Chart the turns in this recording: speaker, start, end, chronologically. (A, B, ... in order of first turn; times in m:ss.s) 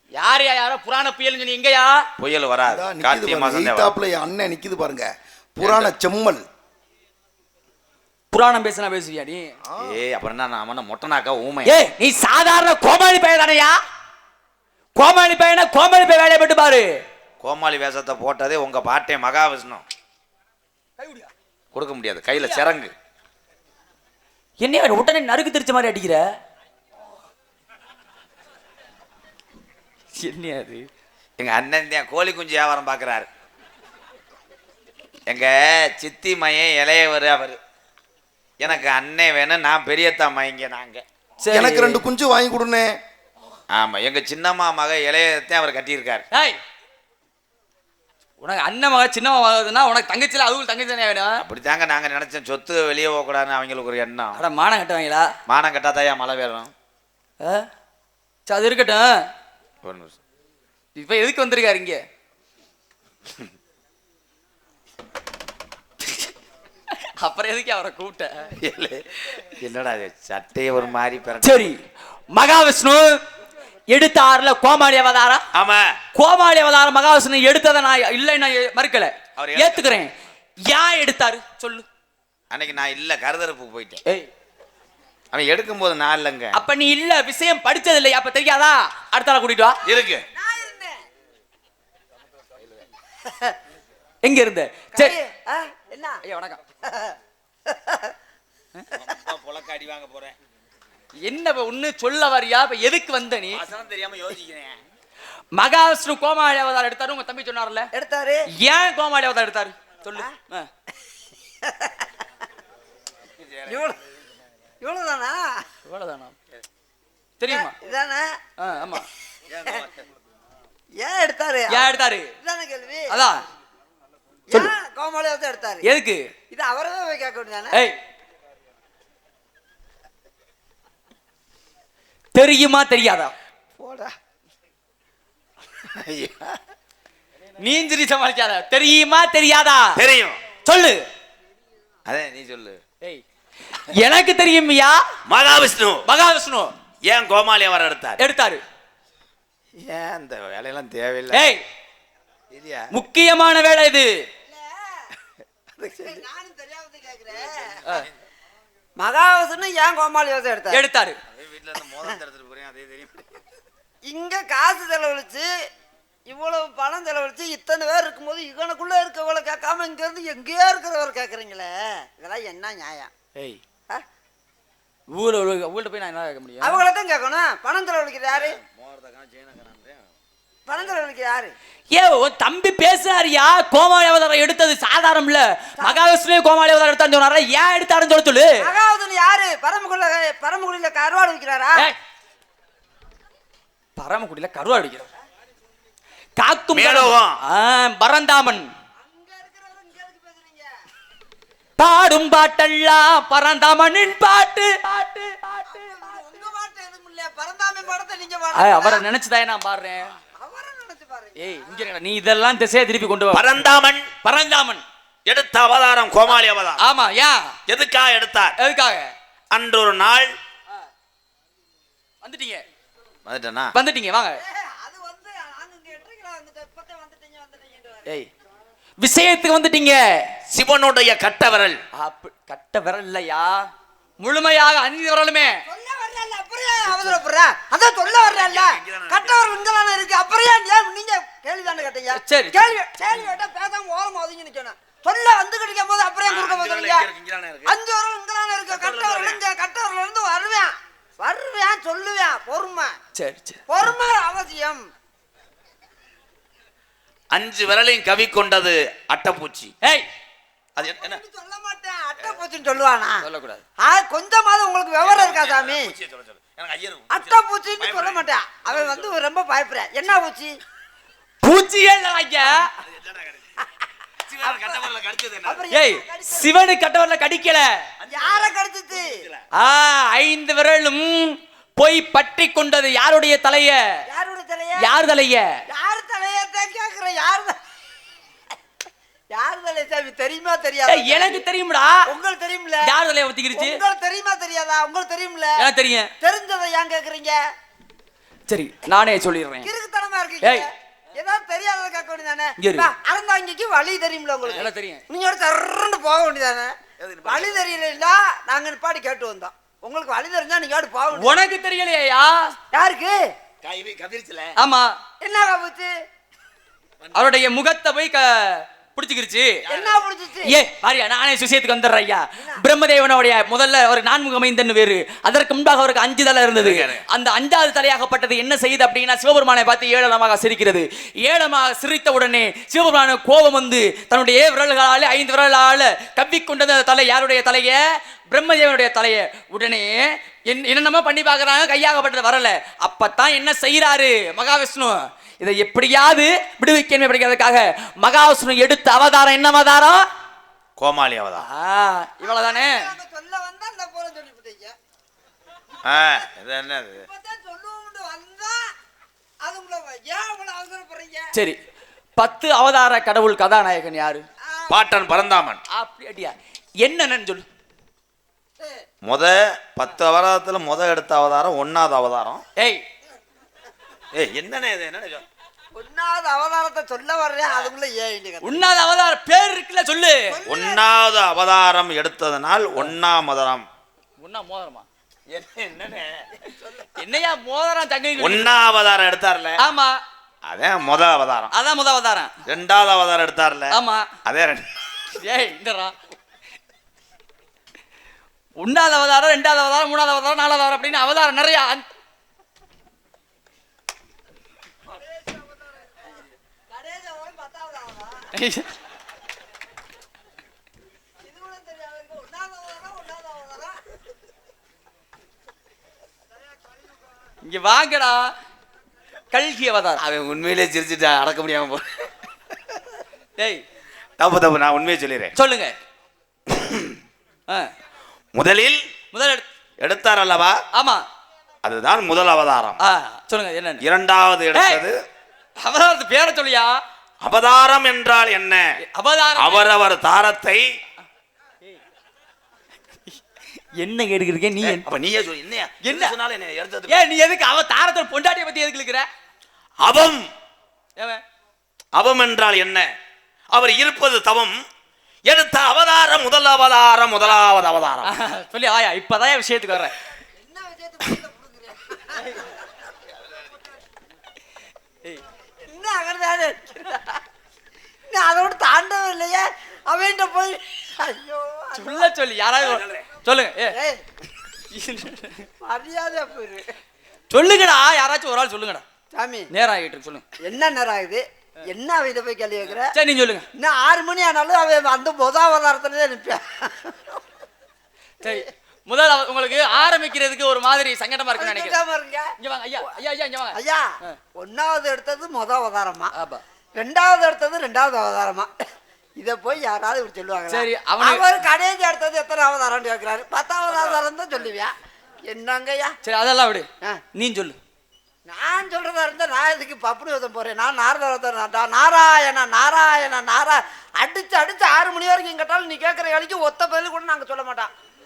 0:00.1-0:02.1 A
0:02.2-0:03.9 B
0:02.7-0:06.4 C
0:05.6-0:05.9 B
0:08.3-0:09.5 A
0:09.7-0:09.9 C
0:09.8-0:11.8 B
0:11.6-0:13.8 A
0:15.0-0:17.0 A
0:17.4-0:19.8 B
0:21.0-0:21.3 A
0:21.7-0:22.9 B
0:24.6-0:26.2 A
0:30.2-0:30.9 A
0:31.4-0:33.3 B
0:35.3-0:37.6 B
0:38.6-0:41.0 B
0:41.4-0:42.0 A
0:41.5-0:43.0 C
0:43.7-0:46.2 B
0:46.3-0:46.6 A
0:48.4-0:51.4 A
0:51.4-0:54.4 B
0:54.3-0:55.3 A
0:55.5-0:56.7 B
0:57.4-0:57.7 A
0:58.5-0:59.3 A
0:59.8-1:00.1 B
1:01.0-1:02.0 A
1:06.0-1:06.3 A
1:06.9-1:08.5 A
1:08.6-1:11.7 B
1:11.4-1:11.8 A
1:12.3-1:13.2 A
1:13.9-1:15.4 A
1:15.5-1:16.0 B
1:16.1-1:20.1 A
1:19.4-1:20.0 B
1:20.7-1:21.8 A
1:22.5-1:24.0 B
1:25.3-1:26.6 B
1:26.5-1:29.8 A
1:29.8-1:30.2 B
1:30.3-1:31.0 D
1:33.2-1:33.6 D
1:34.2-1:35.2 A
1:34.9-1:36.2 D
1:36.2-1:36.6 A
1:36.8-1:38.1 D
1:38.9-1:40.4 B
1:41.2-1:43.6 A
1:43.5-1:44.8 B
1:45.5-1:47.9 A
1:47.9-1:48.5 D
1:48.5-1:50.7 A
1:51.6-1:52.1 D
1:53.4-1:53.8 B
1:53.6-1:54.0 D
1:54.8-1:55.6 D
1:55.8-1:56.3 A
1:57.4-1:57.7 A
1:57.5-1:58.4 D
1:58.6-1:59.0 A
1:59.5-2:00.0 B
2:01.0-2:03.1 D
2:01.7-2:02.3 A
2:03.1-2:03.4 A
2:04.5-2:05.8 D
2:05.8-2:06.3 A
2:06.5-2:07.8 D
2:12.3-2:13.3 A
2:13.8-2:14.1 B
2:15.8-2:16.6 B
2:17.6-2:20.0 A
2:19.9-2:20.4 B
2:20.6-2:21.1 A
2:22.1-2:22.8 B
2:23.0-2:25.0 A
2:25.3-2:26.0 B
2:26.0-2:26.7 A
2:27.0-2:28.2 B
2:28.2-2:28.6 A
2:29.8-2:31.5 B
2:31.3-2:31.6 A
2:32.5-2:32.9 B
2:32.9-2:34.3 A
2:34.4-2:35.1 D
2:35.8-2:36.2 B
2:36.0-2:37.8 D
2:37.8-2:38.1 B
2:39.0-2:40.8 D
2:40.7-2:41.2 A
2:41.3-2:43.4 B
2:44.0-2:45.5 D
2:46.3-2:53.1 D
2:53.4-2:53.6 A
2:55.1-2:56.8 A
2:56.6-2:58.6 D
2:58.3-3:00.1 B
3:00.6-3:01.5 D
3:01.9-3:08.7 A
3:08.6-3:11.9 D
3:14.0-3:15.1 A
3:16.4-3:18.7 A
3:16.7-3:17.4 B
3:19.0-3:20.7 D
3:21.8-3:25.8 A
3:25.6-3:29.0 D
3:28.5-3:30.1 A
3:30.4-3:31.7 D
3:31.4-3:33.6 A
3:33.3-3:34.1 B
3:34.2-3:34.8 A
3:35.2-3:36.8 B
3:36.8-3:37.6 A
3:37.7-3:38.6 B
3:38.6-3:39.1 A
3:39.5-3:40.3 B
3:42.2-3:42.6 A
3:43.2-3:43.7 B
3:43.7-3:44.4 A
3:44.4-3:48.1 D
3:49.0-3:50.3 A
3:50.5-3:51.8 B
3:51.9-3:55.6 A
3:55.6-4:07.1 D
3:58.0-3:59.6 B
4:02.1-4:02.7 A
4:06.2-4:07.7 B
4:07.6-4:13.0 D
4:08.7-4:09.4 B
4:13.1-4:13.6 A
4:13.7-4:14.8 D
4:17.3-4:19.7 B
4:20.7-4:21.2 B
4:20.8-4:23.2 D
4:23.2-4:23.6 A
4:23.8-4:25.9 D
4:25.0-4:29.2 B
4:27.1-4:30.6 D
4:31.4-4:32.7 A
4:32.8-4:33.5 B
4:34.2-4:35.6 B
4:34.4-4:34.8 D
4:35.4-4:36.5 D
4:35.7-4:37.7 A
4:38.0-4:39.4 B
4:38.1-4:39.2 D
4:39.6-4:44.0 A
4:44.1-4:44.9 D
4:44.8-4:45.6 A
4:45.7-4:47.6 D
4:49.3-4:51.4 D
4:50.9-4:52.1 A
4:52.0-4:52.9 D
4:52.8-4:53.8 A
4:53.5-4:55.6 D
4:55.6-4:56.1 A
4:56.2-4:57.4 D
4:58.5-4:59.7 A
4:59.6-5:11.4 D
5:00.4-5:00.7 A
5:02.6-5:02.9 A
5:04.5-5:05.0 A
5:07.0-5:07.7 B
5:11.1-5:12.5 A
5:12.7-5:13.3 D
5:13.6-5:14.6 B
5:14.6-5:14.9 A
5:15.2-5:15.9 D
5:17.0-5:17.3 B
5:17.1-5:19.6 A
5:19.6-5:20.0 B
5:19.7-5:20.5 D
5:20.4-5:50.0 A
5:26.6-5:27.0 B
5:50.8-5:51.4 B
5:51.4-5:52.9 A
5:52.2-5:54.8 D
5:55.8-5:57.1 B
5:57.0-5:58.7 D
5:59.4-6:01.3 D
6:02.2-6:04.2 A
6:04.4-6:04.7 D
6:04.7-6:05.6 B
6:05.7-6:07.4 A
6:08.6-6:08.8 D
6:09.0-6:12.4 B
6:12.6-6:12.8 A
6:14.1-6:15.2 B
6:15.7-6:18.6 D
6:18.4-6:20.3 A
6:20.3-6:20.8 D
6:20.4-6:23.7 B
6:24.2-6:24.8 A
6:25.3-6:26.3 B
6:26.6-6:26.9 D
6:27.0-6:28.5 A
6:28.2-6:29.6 B
6:29.6-6:30.0 A
6:30.4-6:31.5 B
6:31.5-6:32.3 A
6:32.4-6:34.7 B
6:33.7-6:34.1 A
6:35.1-6:35.9 A
6:38.6-6:41.8 A
6:44.9-6:46.0 D
6:46.7-6:48.3 D
6:48.3-6:48.7 A
6:51.2-6:53.8 D
6:57.4-6:58.3 A
6:59.3-7:00.0 A
7:00.0-7:02.1 B
7:03.4-7:03.6 A
7:04.2-7:05.3 B
7:05.4-7:05.7 A
7:06.5-7:07.0 B
7:08.3-7:08.8 B
7:09.1-7:09.4 A
7:09.8-7:10.6 B
7:10.7-7:11.0 A
7:11.6-7:12.8 B
7:12.8-7:13.8 A
7:13.8-7:15.0 B
7:14.5-7:14.8 A
7:15.6-7:16.8 A
7:17.2-7:18.7 B
7:18.8-7:19.7 A
7:19.3-7:20.6 B
7:23.7-7:24.8 A
7:24.6-7:27.0 B
7:25.8-7:26.1 A
7:26.9-7:29.1 A
7:29.8-7:30.3 B
7:31.0-7:31.2 A
7:31.9-7:32.9 B
7:33.5-7:34.6 B
7:35.2-7:38.1 B
7:38.0-7:40.0 A
7:40.3-7:42.6 D
7:45.6-7:47.2 D
7:48.1-7:52.1 D
7:51.7-7:53.8 A
7:52.6-7:53.1 B
7:53.7-7:54.0 D
7:54.7-7:55.5 A
7:55.6-7:56.7 D
7:57.3-7:58.8 A
7:59.1-7:59.5 D
7:59.5-8:00.2 A
8:00.4-8:02.9 D
8:02.9-8:03.5 A
8:03.6-8:07.2 D
8:08.2-8:11.8 A
8:08.2-8:08.5 D
8:11.4-8:12.3 D
8:12.4-8:14.2 A
8:13.5-8:16.1 D
8:16.1-8:16.4 A
8:16.7-8:18.6 D
8:19.2-8:24.7 D
8:20.5-8:21.2 A
8:25.3-8:25.9 D
8:26.0-8:27.6 A
8:28.3-8:37.7 D